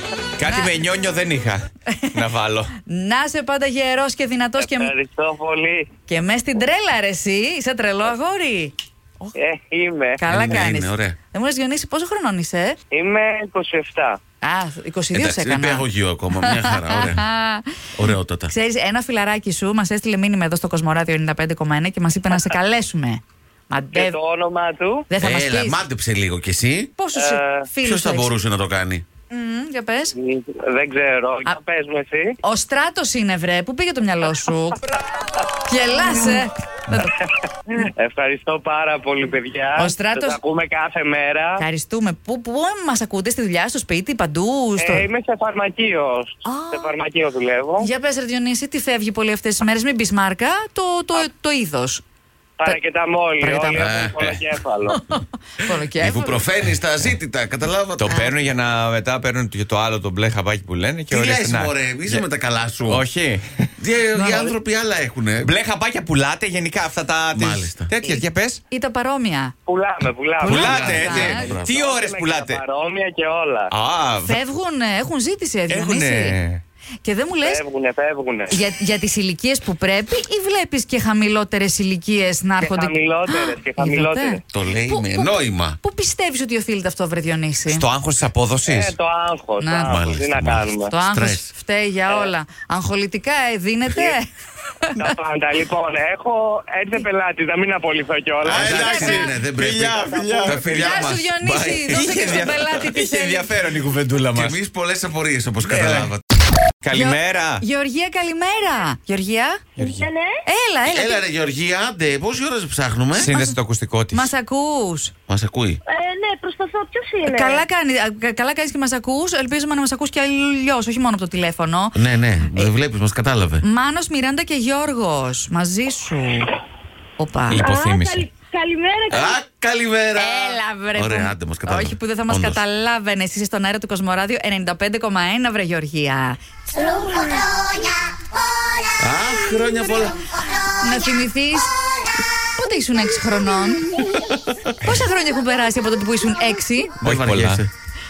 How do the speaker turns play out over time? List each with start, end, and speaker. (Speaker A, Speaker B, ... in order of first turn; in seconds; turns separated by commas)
Speaker A: 0.4-2.7, Speaker B: 2.9-4.9, Speaker C: 4.6-5.9, Speaker B: 6.1-9.3, Speaker C: 9.3-10.2, Speaker B: 10.2-12.8, Speaker D: 10.3-11.2, Speaker C: 12.9-14.2, Speaker B: 14.4-15.8, Speaker D: 15.1-17.2, Speaker B: 16.4-17.7, Speaker D: 18.0-18.5, Speaker B: 18.5-24.2, Speaker C: 23.9-25.1, Speaker B: 25.1-25.8, Speaker D: 25.2-26.9, Speaker B: 27.0-28.3, Speaker C: 27.1-27.6, Speaker D: 27.8-29.0, Speaker B: 29.3-30.1, Speaker C: 30.2-32.4, Speaker B: 32.4-34.9, Speaker B: 35.6-37.1, Speaker C: 37.8-41.6, Speaker B: 39.8-40.4, Speaker B: 41.6-45.0, Speaker C: 44.8-47.9, Speaker B: 46.4-47.0, Speaker B: 47.8-52.0, Speaker C: 52.6-55.0, Speaker B: 53.4-54.0, Speaker D: 53.7-54.4, Speaker B: 54.9-56.4, Speaker D: 56.0-58.1, Speaker A: 58.0-62.2, Speaker D: 61.1-63.0, Speaker A: 62.8-64.3, Speaker D: 63.8-65.5, Speaker A: 65.4-68.6, Speaker D: 67.3-67.9, Speaker B: 68.7-69.5, Speaker C: 69.7-73.7, Speaker A: 70.4-72.6, Speaker D: 70.5-71.8, Speaker B: 70.5-71.4, Speaker A: 73.7-74.4, Speaker B: 74.2-76.3, Speaker A: 75.7-76.6, Speaker B: 77.0-77.6, Speaker C: 77.4-78.6, Speaker B: 78.5-87.8, Speaker C: 82.6-84.4, Speaker D: 84.5-85.8, Speaker A: 87.7-88.9, Speaker C: 88.7-90.9, Speaker B: 89.6-90.0, Speaker D: 89.9-91.5, Speaker B: 90.9-94.2, Speaker B: 94.8-95.1, Speaker C: 95.0-99.0, Speaker D: 98.4-102.1, Speaker A: 98.5-101.2, Speaker B: 98.6-99.3, Speaker B: 100.8-103.5, Speaker A: 101.9-104.5, Speaker D: 104.3-106.2, Speaker A: 105.6-106.1, Speaker A: 106.8-107.6, Speaker B: 106.9-109.6, Speaker A: 109.8-110.1, Speaker E: 109.8-110.4, Speaker B: 110.5-111.2, Speaker D: 110.8-113.3, Speaker A: 113.1-114.3, Speaker B: 113.3-113.6, Speaker B: 114.1-115.1, Speaker D: 115.3-115.8, Speaker E: 115.9-117.6, Speaker B: 117.2-122.0, Speaker D: 121.9-123.6, Speaker B: 123.6-126.5, Speaker B: 127.2-127.6, Speaker A: 127.5-128.3, Speaker E: 127.6-129.4, Speaker D: 129.1-132.6, Speaker B: 130.2-136.4, Speaker E: 137.2-137.7, Speaker D: 139.0-140.3, Speaker B: 140.7-141.8, Speaker B: 142.6-144.1, Speaker B: 144.8-146.9, Speaker A: 147.0-147.6, Speaker D: 147.0-147.7